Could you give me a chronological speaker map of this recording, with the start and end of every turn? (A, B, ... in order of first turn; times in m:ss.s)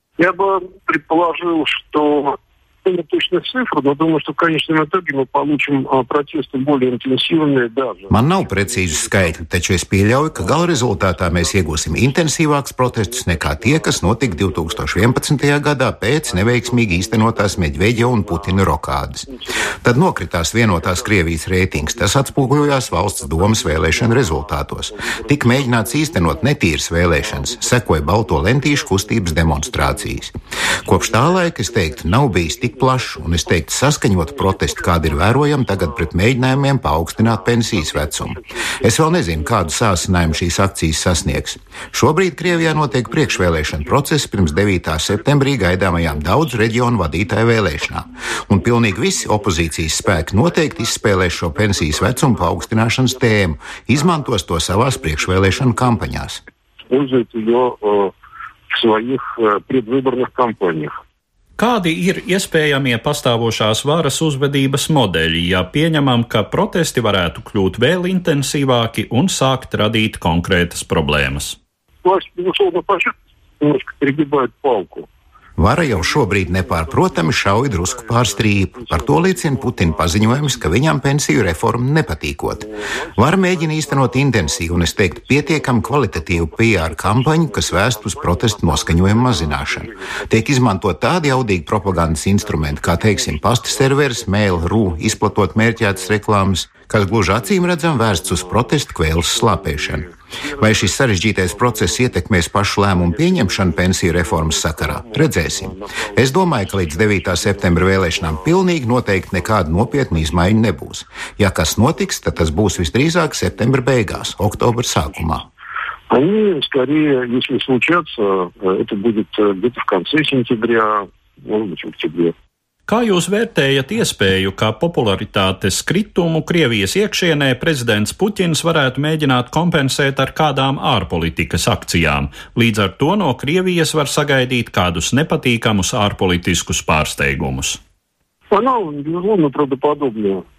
0:00.2-0:09.4 A
0:08.1-0:19.3 B
0:10.3-0:12.2 A
0:12.8-0:15.4 A
0:16.2-0:18.7 A
0:19.3-0:19.8 A
0:19.8-0:30.3 B
0:20.7-0:26.6 A
0:27.1-0:30.3 A
0:30.8-0:33.7 A
0:30.8-0:56.4 B
0:34.2-0:40.5 A
0:41.2-0:41.5 A
0:42.4-0:44.0 A
0:44.8-0:56.0 A
0:56.9-0:58.1 A
0:58.7-1:00.9 A
1:01.6-1:11.6 C
1:12.0-1:15.1 A
1:15.6-1:40.0 B
1:15.8-1:20.9 A
1:22.6-1:30.6 A
1:31.9-1:36.2 A
1:37.0-1:42.2 A
1:40.6-1:55.4 B
1:42.9-1:50.6 A
1:51.8-1:55.2 A
1:56.1-2:02.3 A
2:02.9-2:17.8 C
2:18.5-2:20.4 A